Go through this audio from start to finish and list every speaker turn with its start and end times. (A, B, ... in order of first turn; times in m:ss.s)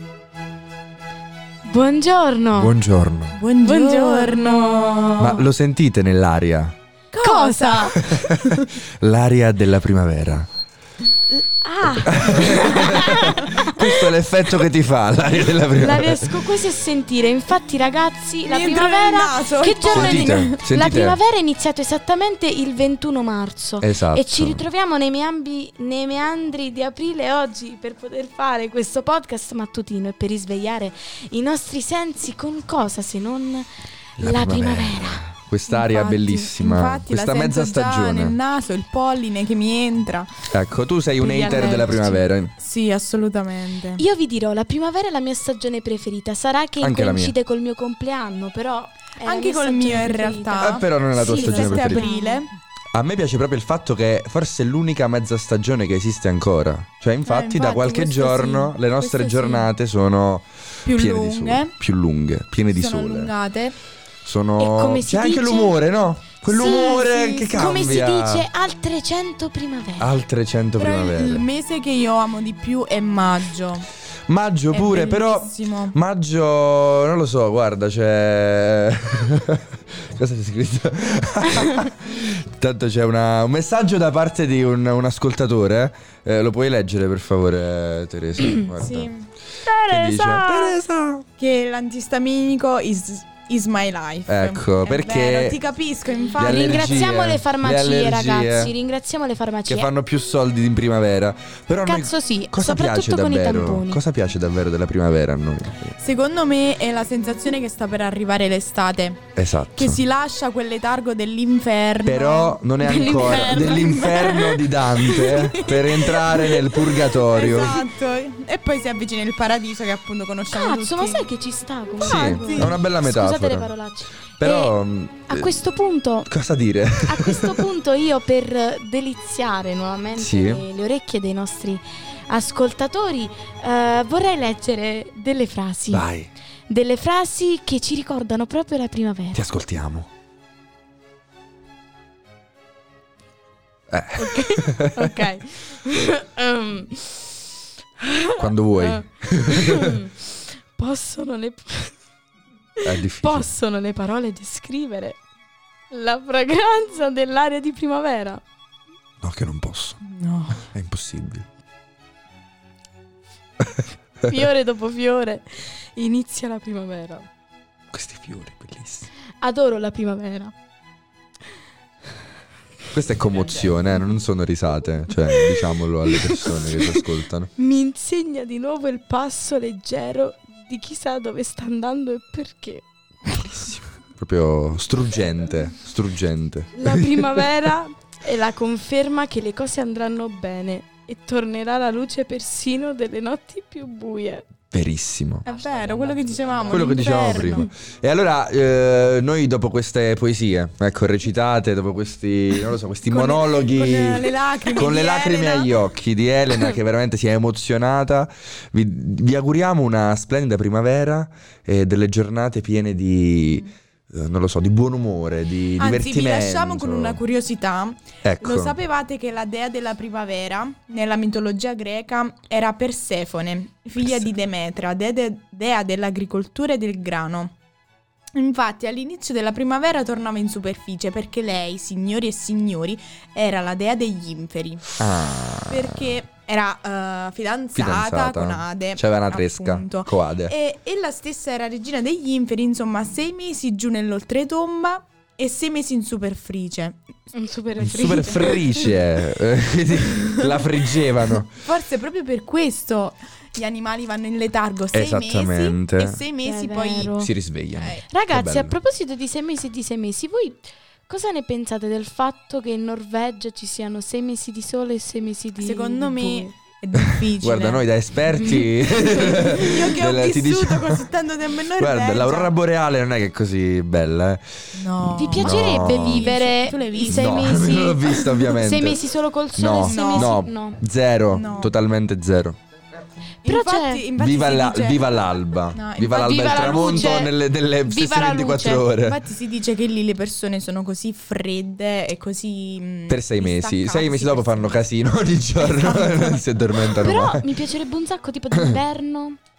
0:01.6-0:02.7 A
0:02.5-0:03.4 B
0:03.3-0:05.1 C
0:03.6-0:05.4 A
0:05.2-0:06.7 B
0:07.1-0:08.7 C
0:07.2-0:08.1 A
0:07.9-0:10.5 B
0:11.3-0:14.1 A
0:12.0-0:16.4 B
0:15.7-0:35.2 A
0:18.4-0:20.6 C
0:19.9-0:21.2 B
0:23.8-0:24.6 B
0:34.2-0:38.4 B
0:35.7-0:40.4 C
0:40.5-0:42.5 B
0:41.2-0:44.0 C
0:41.4-0:42.0 A
0:44.0-0:52.4 A
0:46.8-0:47.4 B
0:49.2-0:52.5 C
0:50.6-0:52.1 B
0:52.9-1:03.3 B
0:57.2-0:59.7 C
1:00.8-1:01.8 C
1:02.7-1:03.8 C
1:04.2-1:08.5 B
1:04.6-1:05.8 A
1:06.4-1:10.1 A
1:06.7-1:07.6 C
1:10.0-1:11.4 B
1:10.8-1:13.9 C
1:14.3-1:29.1 B
1:14.7-1:16.0 C
1:28.8-1:29.3 C
1:29.6-1:30.8 A
1:29.7-1:31.2 B
1:31.4-1:37.1 C
1:34.3-1:35.6 B
1:36.3-1:38.7 B
1:36.4-1:39.9 A
1:39.7-1:45.9 B
1:41.8-1:44.0 A
1:46.0-2:01.3 C
1:49.4-1:50.0 B
1:52.0-1:57.8 B
1:52.8-1:55.4 A
2:00.5-2:06.3 A
2:02.0-2:02.8 C
2:02.0-2:03.7 B
2:04.4-2:05.6 B
2:06.2-2:07.6 B
2:07.0-2:16.0 A
2:10.2-2:10.6 B
2:15.9-2:16.3 B
2:16.7-2:19.4 A
2:19.3-2:20.1 B
2:23.9-2:25.1 B
2:24.2-2:27.4 A
2:25.0-2:25.4 C
2:28.0-2:31.9 A
2:28.4-2:30.0 B
2:32.8-2:35.2 A
2:32.8-2:33.5 B
2:35.9-2:38.4 A
2:39.2-2:40.0 B
2:40.0-2:40.6 C
2:40.6-2:41.4 B
2:44.2-2:47.3 A
2:47.9-2:49.1 B
2:49.4-2:50.5 A
2:52.9-2:57.5 B
2:55.2-2:57.0 A
2:57.6-3:03.8 A
3:04.1-3:07.0 B
3:06.7-3:14.4 A
3:14.7-3:15.4 B
3:15.4-3:17.7 C
3:16.7-3:37.2 B
3:23.1-3:25.8 C
3:35.8-3:47.5 C
3:38.2-3:38.8 B
3:48.3-3:54.9 C
3:55.0-3:56.1 B
3:55.7-4:07.0 C
3:57.7-4:00.5 B
4:07.3-4:08.9 A
4:07.8-4:11.5 B
4:08.0-4:08.8 C
4:10.4-4:10.7 C
4:11.4-4:17.2 C
4:14.9-4:16.2 B
4:16.4-4:17.3 A
4:17.2-4:18.8 B
4:17.7-4:18.0 C
4:18.1-4:26.5 A
4:25.6-4:27.9 C
4:27.0-4:31.1 B
4:28.4-4:28.7 A
4:28.8-4:32.5 C
4:31.8-4:36.3 B
4:34.7-4:37.7 C
4:35.1-4:40.8 A
4:37.1-4:39.0 B
4:39.5-4:42.6 B
4:39.8-4:40.4 C
4:41.3-4:41.7 C
4:43.4-4:45.1 C
4:43.4-4:44.1 A
4:44.2-4:49.2 B
4:45.7-4:47.3 C
4:46.1-4:48.8 A
4:48.8-4:54.8 C
4:53.1-4:57.5 B
4:55.6-4:56.4 C
4:57.0-4:59.4 A